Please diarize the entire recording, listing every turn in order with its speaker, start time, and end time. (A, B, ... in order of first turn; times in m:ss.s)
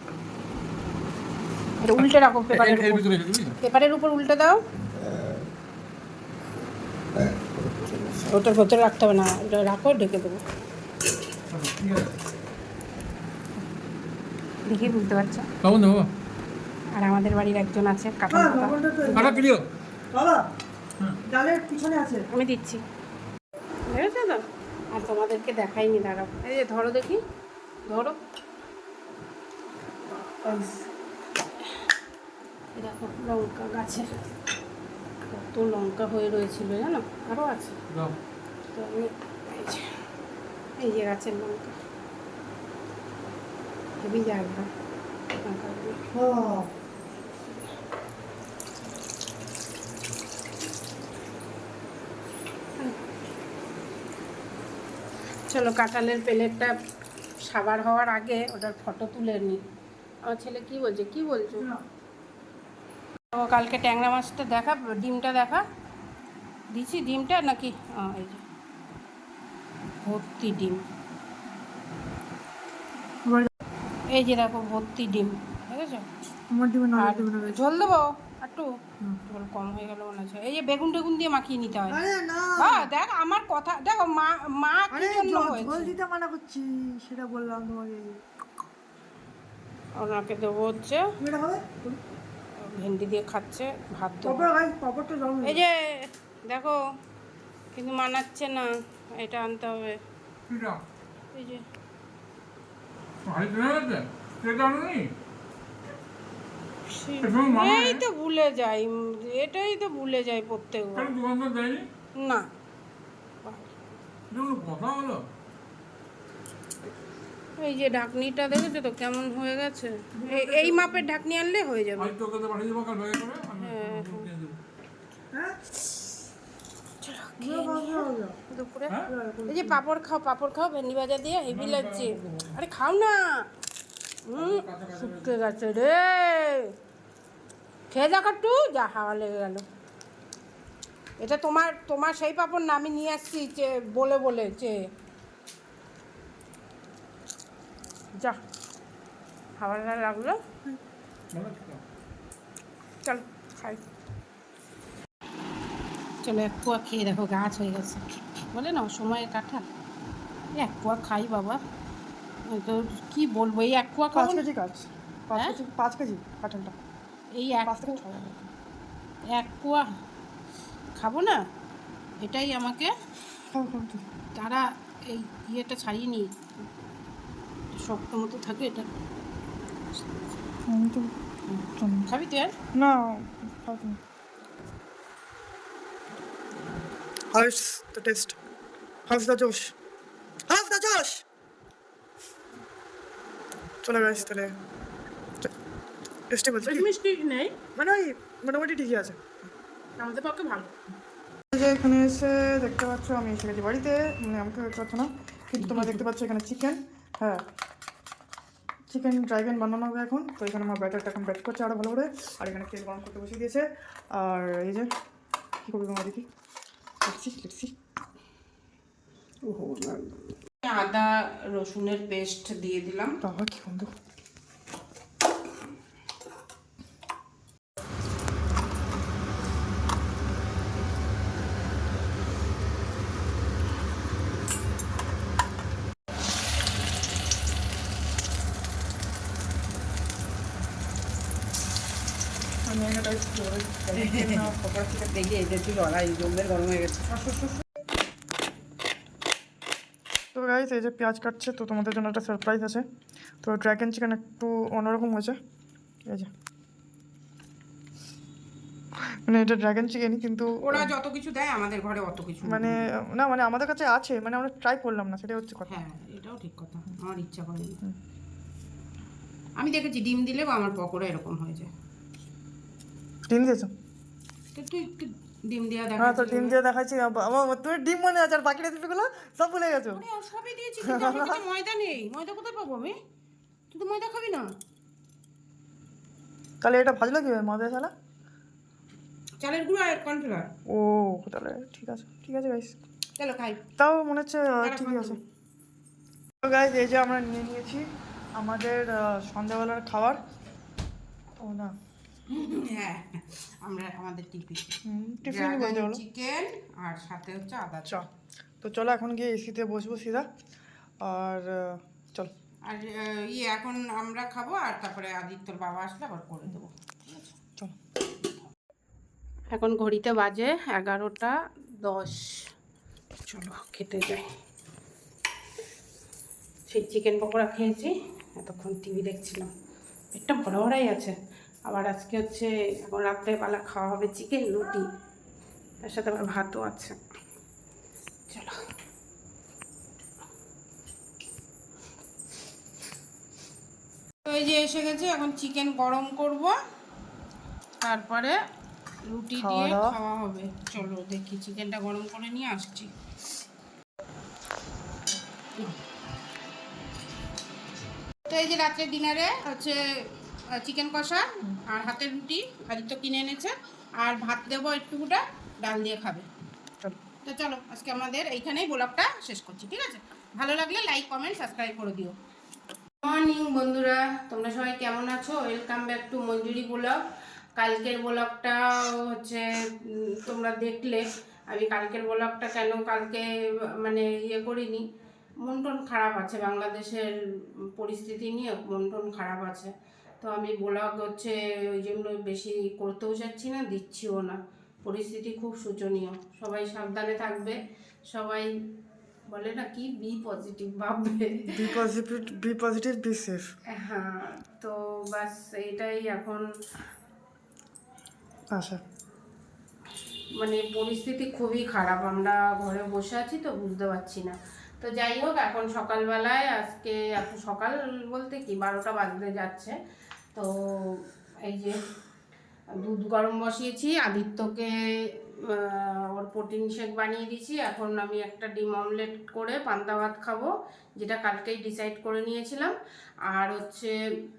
0:01.8-0:03.0 A
0:02.0-0:03.6 B
0:03.6-0:04.6 A
0:07.9-0:10.4 A
0:11.5-0:12.2 B
0:14.6-0:15.5 A
0:15.6-0:16.1 B
0:16.9-0:19.4 A
0:18.3-0:19.3 C
0:19.2-0:19.6 B
0:20.1-0:20.4 C
0:21.3-0:22.2 C
0:22.3-0:22.8 A
0:23.9-0:27.2 A
0:27.9-0:28.2 A
0:30.3-0:30.9 A
0:32.8-0:34.1 A
0:35.3-0:37.8 A
0:38.7-0:39.9 A
0:40.8-0:41.8 A
0:44.0-0:44.7 A
0:45.4-0:46.0 A
0:46.1-0:46.7 C
0:55.5-0:56.7 A
0:57.4-0:59.6 A
1:00.2-1:01.7 A
1:03.3-1:05.6 A
1:06.7-1:08.4 A
1:10.0-1:10.8 A
1:13.2-1:13.5 C
1:14.1-1:16.1 A
1:16.5-1:17.8 C
1:17.0-1:18.7 A
1:19.2-1:25.9 A
1:21.9-1:22.9 C
1:24.9-1:28.2 C
1:30.0-1:31.1 A
1:31.2-1:32.0 C
1:32.6-1:34.5 A
1:34.2-1:35.6 C
1:35.4-1:36.8 A
1:37.7-1:40.0 A
1:40.5-1:40.8 B
1:41.3-1:41.6 A
1:43.2-1:45.1 B
1:46.9-1:51.1 A
1:47.2-1:48.0 B
1:50.9-1:51.8 B
1:52.2-1:52.5 A
1:53.4-1:53.7 A
1:54.3-1:55.2 B
1:57.6-2:02.1 A
2:00.2-2:01.0 C
2:02.0-2:04.6 B
2:03.6-2:04.3 A
2:05.3-2:05.6 C
2:07.0-2:09.0 A
2:07.4-2:08.4 C
2:09.1-2:09.8 C
2:09.5-2:13.5 A
2:11.5-2:12.5 B
2:14.2-2:16.7 A
2:14.4-2:15.4 B
2:17.9-2:19.6 A
2:21.2-2:24.8 A
2:29.6-2:30.4 A
2:31.3-2:31.8 B
2:33.0-2:33.8 A
2:36.2-2:39.7 A
2:40.6-2:41.6 A
2:42.4-2:44.4 A
2:44.1-2:46.8 C
2:47.3-2:48.0 A
2:47.6-2:48.5 C
2:49.3-2:49.9 A
2:51.0-2:51.4 A
2:52.2-2:52.9 A
2:53.5-2:54.0 C
2:54.3-2:56.3 A
2:57.7-2:58.9 A
3:00.7-3:01.1 C
3:01.5-3:02.5 A
3:01.8-3:02.1 C
3:02.8-3:04.0 C
3:07.3-3:08.4 C
3:09.1-3:09.7 C
3:10.5-3:11.2 C
3:13.8-3:14.5 C
3:16.3-3:16.9 C
3:16.6-3:17.6 A
3:17.8-3:19.2 C
3:20.0-3:20.7 A
3:21.5-3:27.4 C
3:25.6-3:26.0 A
3:28.9-3:34.9 C
3:35.6-3:36.3 C
3:37.0-3:37.7 C
3:39.4-3:43.2 A
3:43.2-3:43.9 C
4:02.6-4:05.1 C
4:03.9-4:07.1 A
4:07.1-4:07.6 C
4:10.3-4:12.9 C
4:13.4-4:15.4 C
4:16.0-4:16.3 C
4:19.0-4:20.9 C
4:20.6-4:22.8 A
4:22.4-4:25.8 C
4:25.7-4:27.8 A
4:29.6-4:31.7 A
4:33.3-4:33.7 C
4:34.5-4:36.6 A
4:36.0-4:40.0 C
4:39.9-4:43.0 A
4:40.8-4:41.4 C
4:43.7-4:44.5 A
4:46.6-4:47.9 C
4:49.4-4:50.5 A
4:50.7-4:52.8 C
4:53.2-4:53.6 A
4:53.8-4:55.2 C
4:54.6-4:55.2 A
4:56.4-5:00.2 C
5:01.4-5:01.7 C
5:02.3-5:08.0 A
5:04.8-5:06.0 C
5:08.6-5:10.3 C
5:11.0-5:12.3 C
5:12.7-5:17.3 A
5:19.5-5:22.5 A
5:23.3-5:24.3 A
5:26.7-5:29.5 A
5:30.1-5:31.2 A
5:31.7-5:34.9 A
5:35.8-5:37.0 A
5:38.3-5:38.6 A
5:44.2-5:46.6 A
5:47.8-5:48.4 A
5:49.1-5:52.9 A
5:49.4-5:50.0 C
5:58.2-5:59.8 A
6:00.5-6:06.3 A
6:07.2-6:12.2 A
6:13.0-6:17.0 A
6:17.6-6:24.9 A
6:25.4-6:38.5 A
6:39.3-6:41.8 A
6:41.5-6:43.5 C
6:43.7-6:46.4 A
6:48.5-6:48.8 C
6:50.4-6:59.8 A
7:00.3-7:01.8 A
7:02.7-7:12.7 A
7:13.3-7:13.9 A